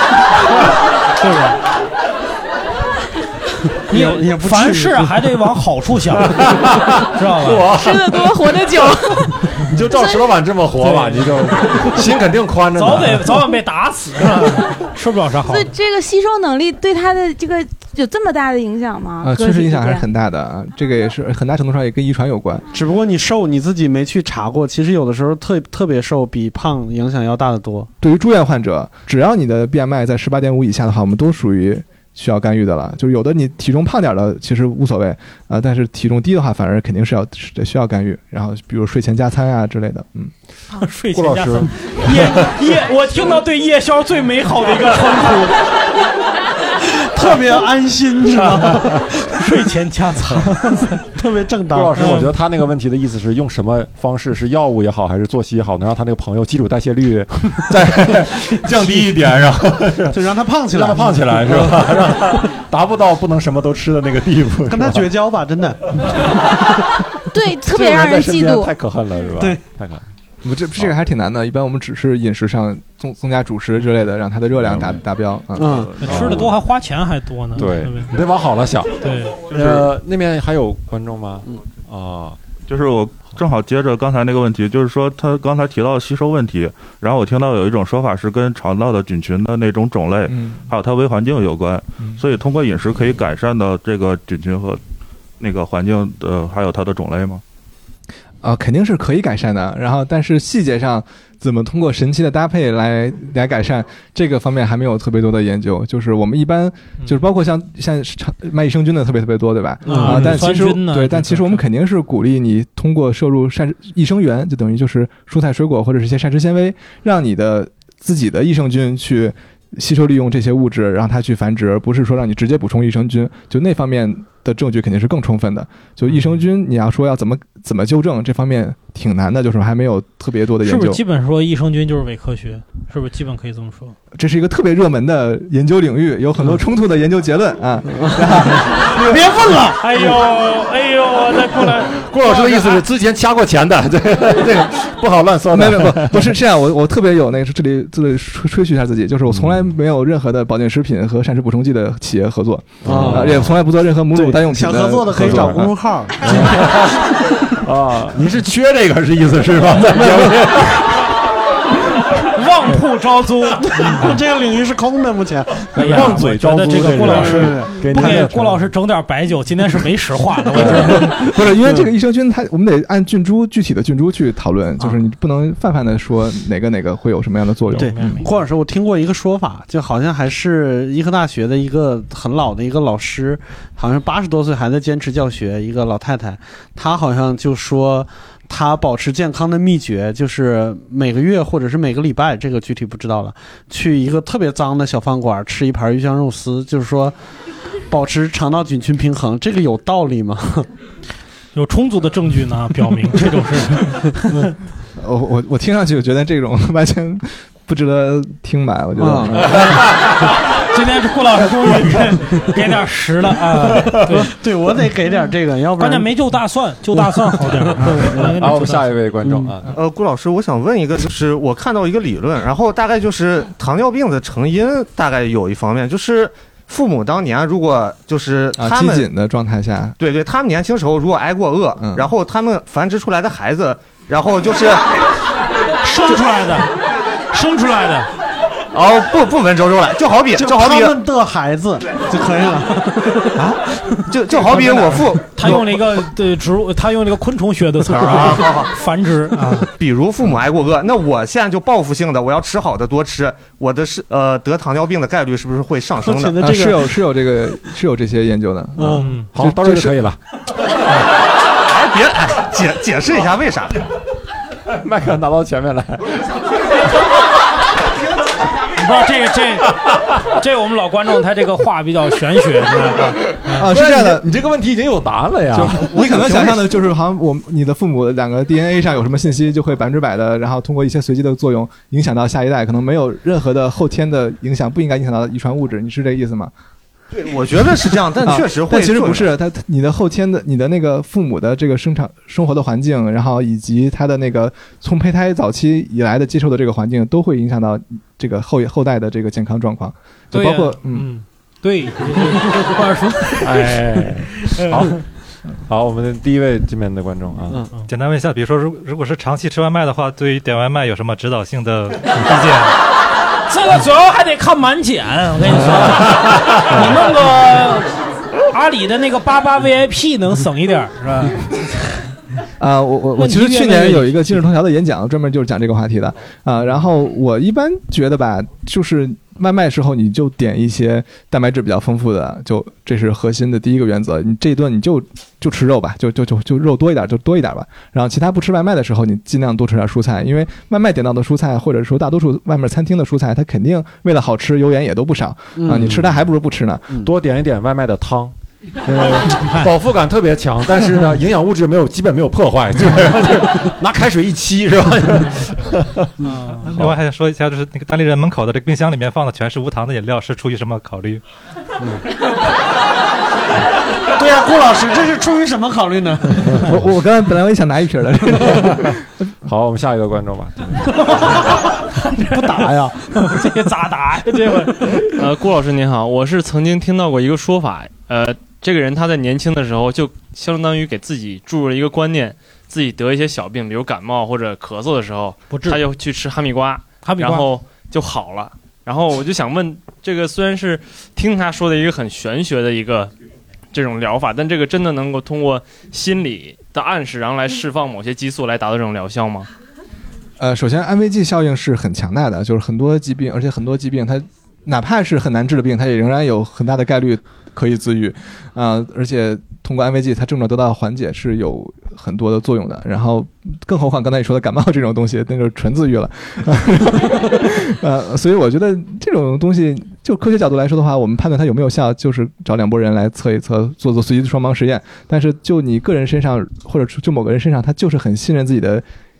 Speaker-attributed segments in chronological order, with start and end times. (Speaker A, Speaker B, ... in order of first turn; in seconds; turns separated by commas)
Speaker A: 1.2-1.6, Speaker B: 3.9-5.1, Speaker A: 3.9-6.5, Speaker C: 6.3-8.4, Speaker A: 7.1-7.6, Speaker D: 7.7-10.3, Speaker C: 9.6-13.4, Speaker A: 10.8-11.5, Speaker A: 12.7-15.7, Speaker D: 15.5-20.1, Speaker E: 19.2-22.6, Speaker B: 22.7-27.9, Speaker E: 28.0-40.3, Speaker A: 40.8-45.6, Speaker C: 41.1-42.3, Speaker B: 47.0-49.4, Speaker A: 48.7-51.0, Speaker B: 51.1-52.2, Speaker C: 51.7-65.1, Speaker A: 52.0-52.3, Speaker B: 60.1-62.1, Speaker B: 64.7-66.3, Speaker C: 66.0-66.3, Speaker D: 67.3-68.7, Speaker C: 67.6-70.0, Speaker E: 70.4-75.9, Speaker B: 75.5-76.0, Speaker A: 76.0-78.1, Speaker C: 76.0-76.5, Speaker C: 77.5-82.4, Speaker A: 79.0-79.4, Speaker F: 82.7-94.8, Speaker E: 90.3-90.6, Speaker F: 95.4-97.4, Speaker E: 98.4-131.0, Speaker B: 109.9-110.3, Speaker A: 109.9-111.6, Speaker A: 130.6-133.9, Speaker E: 134.1-139.2, Speaker B: 138.0-139.8, Speaker A: 139.8-142.9, Speaker C: 141.9-146.4, Speaker E: 145.5-155.7, Speaker C: 149.3-149.6, Speaker C: 152.8-153.5, Speaker B: 152.9-153.5, Speaker B: 154.1-156.8, Speaker C: 155.2-155.7, Speaker C: 156.2-161.1, Speaker A: 162.2-164.0, Speaker B: 163.8-166.1, Speaker C: 165.7-168.7, Speaker A: 165.7-171.1, Speaker B: 167.0-167.8, Speaker C: 170.5-171.1, Speaker E: 170.5-178.2, Speaker A: 177.7-178.3, Speaker B: 177.8-197.1, Speaker B: 197.9-200.7, Speaker A: 201.5-204.4, Speaker E: 204.9-209.9, Speaker B: 209.0-209.5, Speaker A: 209.5-214.3, Speaker B: 213.7-216.1, Speaker A: 215.8-218.9, Speaker B: 216.9-218.3, Speaker C: 218.1-219.7, Speaker B: 219.2-219.5, Speaker G: 219.7-229.1, Speaker E: 228.6-229.9, Speaker G: 230.0-234.9, Speaker E: 231.8-232.1, Speaker A: 235.8-236.7, Speaker A: 237.3-238.1, Speaker G: 238.7-241.0, Speaker B: 240.3-243.4, Speaker G: 243.4-245.6, Speaker B: 244.5-245.6, Speaker A: 244.5-249.7, Speaker G: 247.9-248.7, Speaker G: 249.8-256.4, Speaker B: 256.0-256.9, Speaker E: 256.4-260.0, Speaker B: 258.8-259.1, Speaker A: 259.0-259.3, Speaker C: 259.3-260.2, Speaker G: 261.6-263.8, Speaker C: 264.7-266.4, Speaker A: 268.6-273.7, Speaker E: 273.5-274.3, Speaker C: 273.6-276.7, Speaker E: 275.5-286.5, Speaker G: 287.1-289.3, Speaker E: 288.2-301.1, Speaker A: 300.3-303.7, Speaker C: 303.4-305.0, Speaker C: 305.7-307.6, Speaker H: 307.9-312.8, Speaker A: 313.5-321.4, Speaker E: 322.6-346.9, Speaker A: 323.2-324.2, Speaker B: 345.6-346.1, Speaker C: 347.0-348.3, Speaker C: 348.8-356.1, Speaker A: 349.4-349.7, Speaker A: 356.2-356.7, Speaker H: 356.7-361.2, Speaker B: 364.1-366.7, Speaker E: 366.6-369.0, Speaker C: 369.4-371.5, Speaker A: 371.0-375.1, Speaker B: 372.3-373.4, Speaker I: 375.1-393.1, Speaker A: 385.5-385.8, Speaker A: 387.0-387.5, Speaker I: 393.7-399.5, Speaker E: 400.4-428.8